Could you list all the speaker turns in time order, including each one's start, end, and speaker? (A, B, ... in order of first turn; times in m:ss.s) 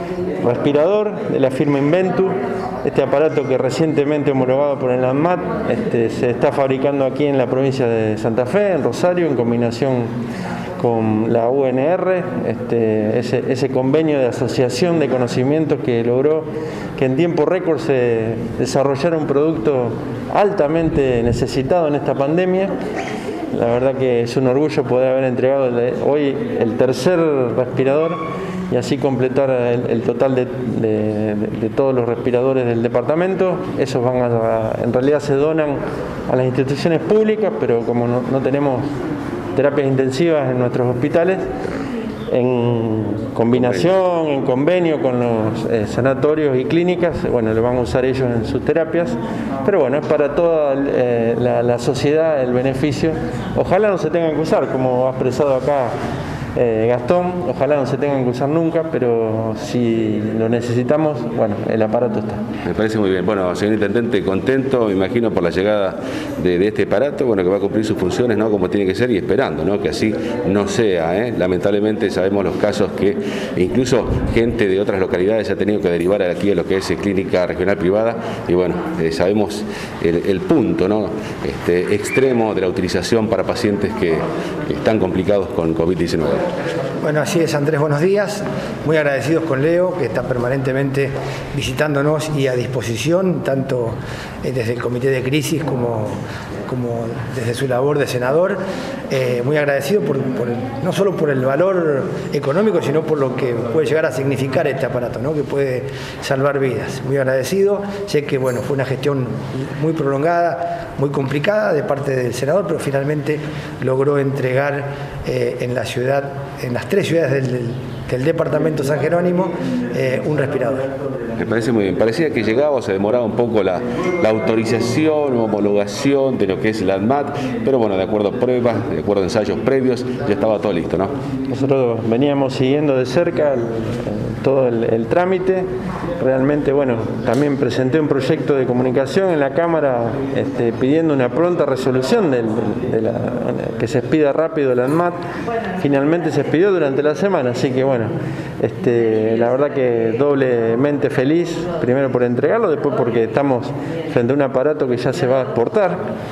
0:00.4-0:10.1 A
0:10.8-0:22.7 A
0:23.5-0:38.9 A
0:39.5-0:41.4 A
0:42.3-0:55.9 A
0:43.6-0:43.8 B
0:56.5-1:02.4 A
1:02.6-1:26.4 B
1:27.0-2:00.9 C
2:01.4-2:11.1 B
2:11.5-2:15.7 A
2:16.2-2:25.2 A
2:25.8-2:36.0 A